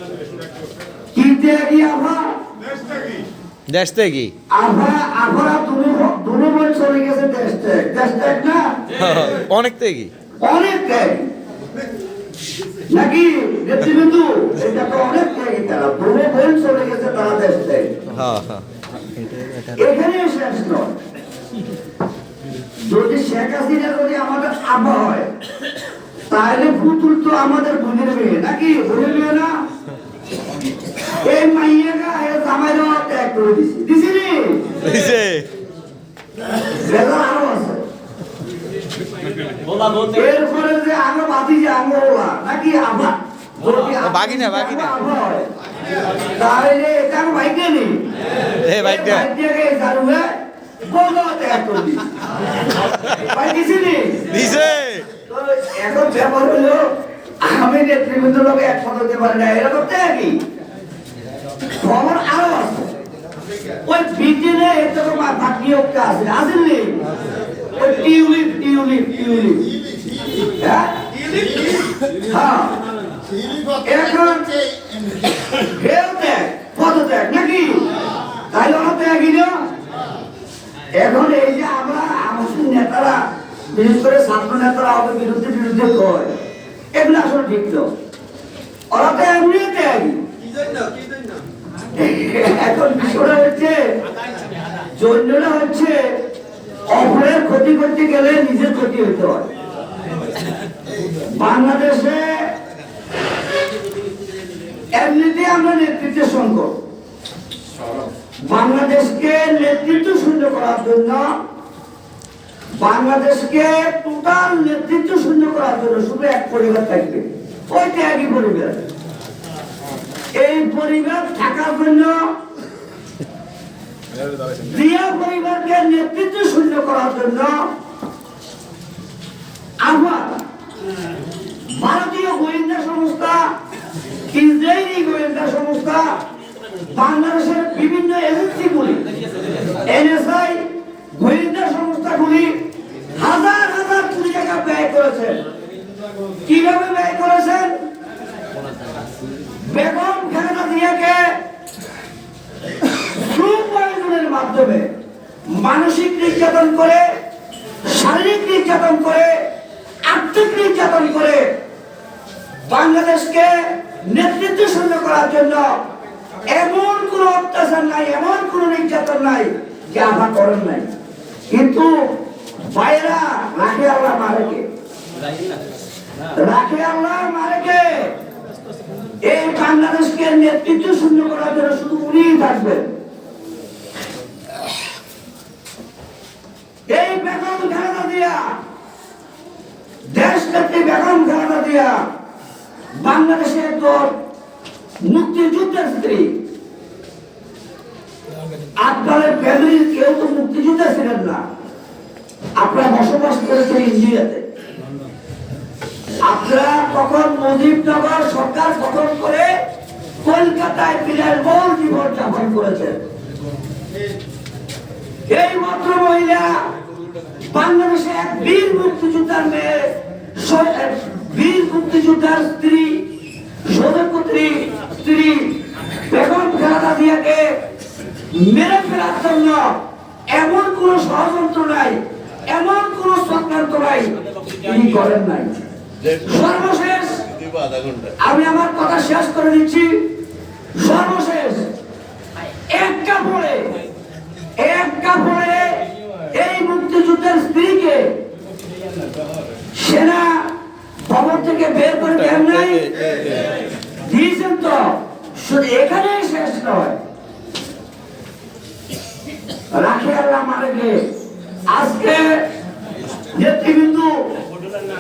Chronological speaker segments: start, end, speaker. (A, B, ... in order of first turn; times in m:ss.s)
0:01.2-0:02.3 A
0:03.7-0:04.3 B
0:04.5-0:08.7 A
0:09.0-0:10.1 B
0:10.4-0:11.3 A
0:12.9-0:17.9 A
0:18.2-0:18.6 B
0:19.6-0:20.9 A
0:22.9-0:25.3 A
0:26.3-0:29.5 A
0:31.0-0:34.8 A
0:34.8-0:35.5 B
0:36.6-0:37.8 A
0:40.0-0:45.5 A
0:43.9-0:44.9 B
0:46.3-0:48.1 A
0:48.6-0:49.3 B
0:48.7-0:52.1 A
0:53.1-0:54.4 A
0:54.3-0:55.0 B
0:55.3-0:56.9 A
0:57.4-1:00.4 A
1:01.8-1:02.9 A
1:03.9-1:07.0 A
1:07.7-1:09.8 A
1:10.4-1:11.0 A
1:12.2-1:12.8 A
1:13.8-1:14.6 A
1:15.5-1:17.9 A
1:18.5-1:19.6 A
1:20.9-1:26.3 A
1:26.9-1:27.9 A
1:28.9-1:30.2 A
1:32.0-1:33.8 A
1:35.0-1:36.1 A
1:36.9-1:39.5 A
1:41.2-1:42.5 A
1:44.9-1:46.8 A
1:48.5-1:51.3 A
1:52.8-1:58.8 A
2:00.4-2:02.3 A
2:04.5-2:07.7 A
2:09.8-2:10.4 A
2:11.7-2:13.6 A
2:14.3-2:16.2 A
2:16.9-2:19.1 A
2:19.8-2:25.4 A
2:26.5-2:27.7 A
2:29.6-2:31.4 A
2:33.0-2:34.9 A
2:35.5-2:37.0 A
2:37.8-2:39.4 A
2:40.1-2:41.4 A
2:42.7-2:45.7 A
2:46.5-2:50.9 A
2:51.5-2:54.6 A
2:56.4-2:58.2 A
2:59.2-3:02.9 A
3:06.9-3:08.6 A
3:10.1-3:12.1 A
3:13.0-3:14.1 A
3:15.0-3:16.4 A
3:18.8-3:21.4 A
3:22.6-3:24.4 A
3:26.2-3:29.5 A
3:30.2-3:33.0 A
3:35.3-3:36.7 A
3:37.4-3:43.1 A
3:43.6-3:47.6 A
3:48.3-3:57.3 A
3:58.2-4:00.1 A
4:00.8-4:01.7 A
4:02.7-4:03.8 A
4:04.6-4:08.2 A
4:09.7-4:13.0 A
4:14.0-4:17.0 A
4:19.7-4:21.1 A
4:21.7-4:22.4 A
4:23.3-4:24.4 A